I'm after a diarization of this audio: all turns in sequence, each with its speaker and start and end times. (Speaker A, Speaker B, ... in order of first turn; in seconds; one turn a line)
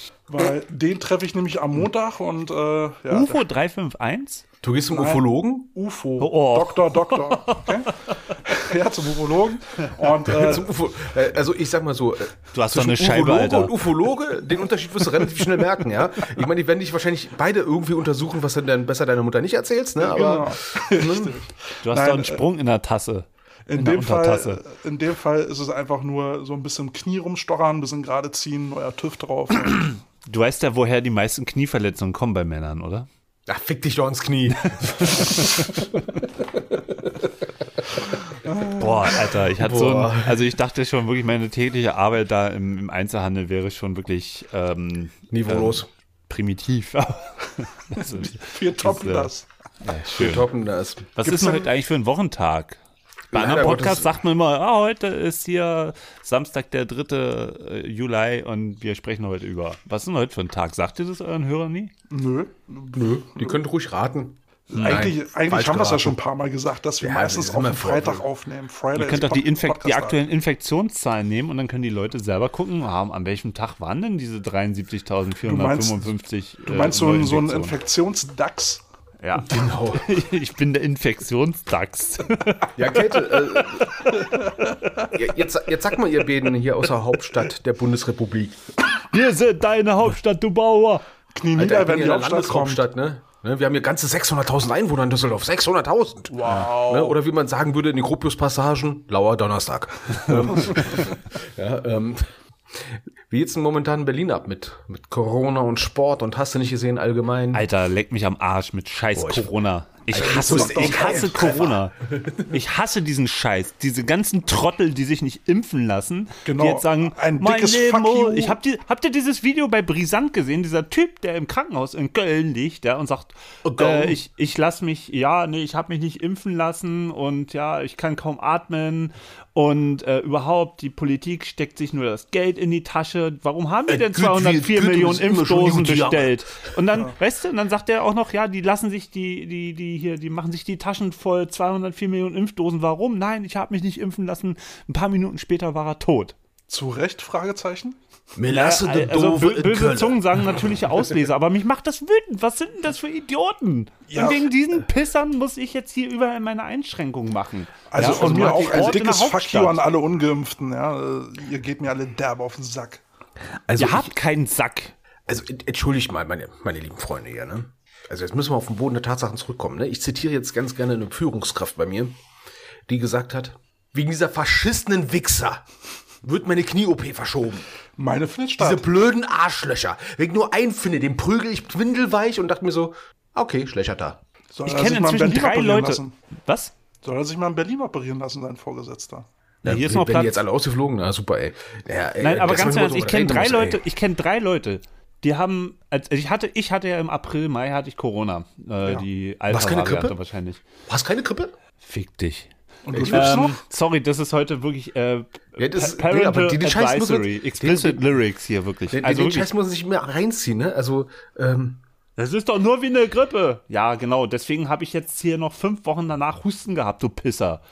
Speaker A: 0.3-3.4
Speaker B: 3.1-4.4
Speaker C: 4.6-5.7
Speaker A: 4.9-10.7
Speaker B: 6.2-8.2
Speaker C: 10.2-21.4
Speaker B: 12.5-13.7
Speaker A: 20.0-22.4
Speaker B: 21.8-24.6
Speaker A: 23.7-29.9
Speaker B: 29.5-33.1
Speaker C: 33.5-37.3
Speaker B: 34.6-35.6
Speaker A: 38.4-39.2
Speaker B: 38.8-49.3
Speaker C: 39.5-40.5
Speaker C: 45.3-45.9
Speaker A: 48.0-49.5
Speaker B: 49.8-50.5
Speaker C: 50.0-51.1
Speaker B: 51.1-52.8
Speaker A: 51.2-51.7
Speaker C: 53.3-54.2
Speaker B: 53.3-61.9
Speaker A: 62.1-63.6
Speaker C: 62.9-66.2
Speaker A: 64.7-70.2
Speaker B: 64.7-65.1
Speaker C: 67.0-68.2
Speaker B: 68.9-77.7
Speaker A: 75.4-76.1
Speaker A: 76.6-78.8
Speaker B: 79.2-84.5
Speaker C: 79.4-80.2
Speaker C: 82.8-84.2
Speaker A: 84.2-84.8
Speaker C: 85.1-88.7
Speaker B: 89.1-91.0
Speaker A: 91.3-92.8
Speaker C: 91.5-107.6
Speaker A: 96.3-97.2
Speaker B: 107.5-146.3
Speaker C: 109.1-109.5
Speaker C: 110.1-112.6
Speaker A: 110.2-111.6
Speaker A: 116.4-118.6
Speaker C: 123.6-124.2
Speaker C: 133.9-136.7
Speaker A: 146.7-148.0
Speaker C: 148.3-150.6
Speaker B: 148.5-159.8
Speaker A: 154.1-154.4
Speaker A: 157.9-163.0
Speaker C: 158.0-158.6
Speaker C: 163.7-164.1
Speaker B: 163.8-164.9
Speaker C: 165.2-172.2
Speaker C: 172.9-175.6
Speaker C: 176.2-177.7
Speaker A: 178.0-178.9
Speaker C: 178.6-184.2
Speaker A: 184.5-186.1
Speaker B: 184.7-186.7
Speaker A: 187.0-189.3
Speaker B: 189.6-190.4
Speaker C: 189.6-193.8
Speaker B: 192.2-200.6
Speaker C: 199.5-200.2
Speaker C: 200.9-201.5
Speaker B: 201.8-202.5
Speaker A: 202.8-203.6
Speaker C: 202.9-203.4
Speaker B: 203.1-209.5
Speaker C: 205.6-208.0
Speaker C: 208.9-211.8
Speaker B: 212.2-217.6